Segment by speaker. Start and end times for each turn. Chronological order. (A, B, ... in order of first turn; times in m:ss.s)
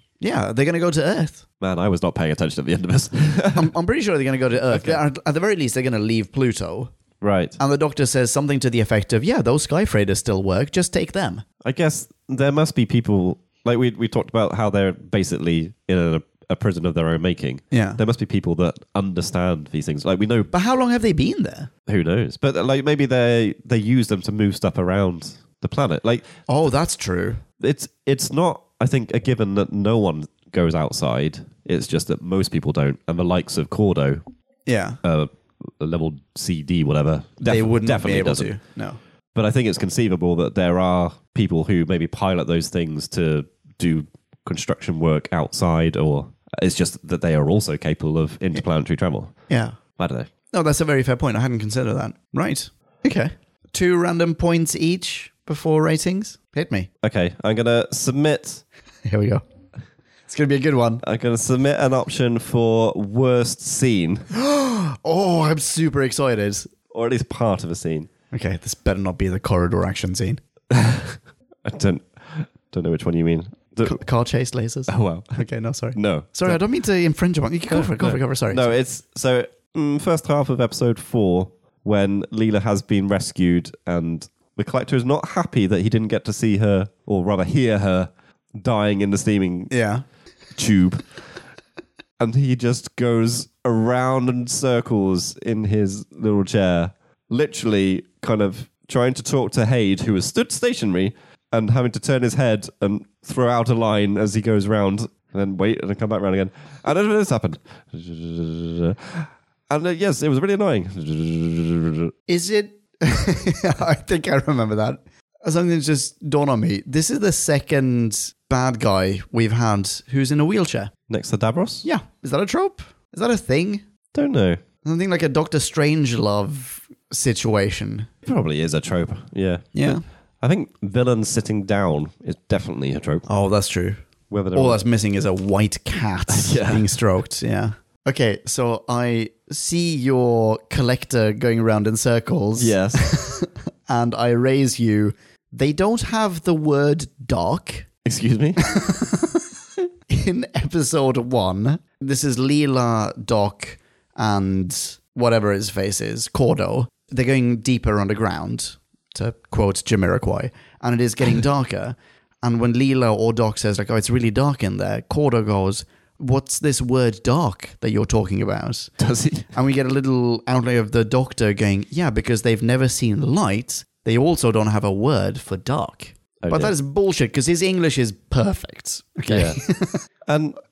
0:00.2-0:01.4 A
0:01.6-0:03.7 B
0:03.6-0:06.9 A
0:04.7-0:05.0 B
0:07.2-0:07.6 B
0:07.6-0:11.4 A
0:11.6-0:20.5 B
0:17.7-0:18.0 A
0:20.5-0:21.7 A
0:21.9-0:26.3 B
0:26.5-0:27.4 A
0:27.6-0:34.2 B
0:34.7-0:35.0 A
0:35.0-0:38.5 B
0:37.4-0:39.0 A
0:39.3-0:49.3 B
0:49.5-0:49.8 A
0:50.0-0:50.3 B
0:50.5-0:56.9 A
0:57.0-0:58.6 B
0:59.0-0:59.4 A
1:00.3-1:01.0 A
1:01.0-1:04.2 B
1:04.3-1:06.7 A
1:06.9-1:08.1 B
1:08.3-1:10.4 A
1:10.7-1:14.0 B
1:13.8-1:18.7 A
1:14.9-1:15.4 B
1:16.0-1:16.6 B
1:17.7-1:29.7 B
1:29.7-1:30.0 A
1:30.6-1:31.1 B
1:32.2-1:52.1 B
1:52.3-2:00.9 A
2:01.1-2:01.9 B
2:01.8-2:03.8 A
2:04.1-2:04.6 B
2:04.8-2:08.1 A
2:08.2-2:13.3 B
2:09.8-2:10.0 A
2:13.3-2:14.0 A
2:14.3-2:14.8 B
2:14.5-2:27.9 A
2:16.3-2:16.9 B
2:22.6-2:23.1 B
2:28.0-2:28.6 B
2:28.6-2:29.4 A
2:30.1-2:48.9 A
2:49.0-2:49.5 B
2:49.5-3:00.0 A
2:56.4-2:56.7 B
2:59.3-2:59.6 B
3:00.3-3:00.6 B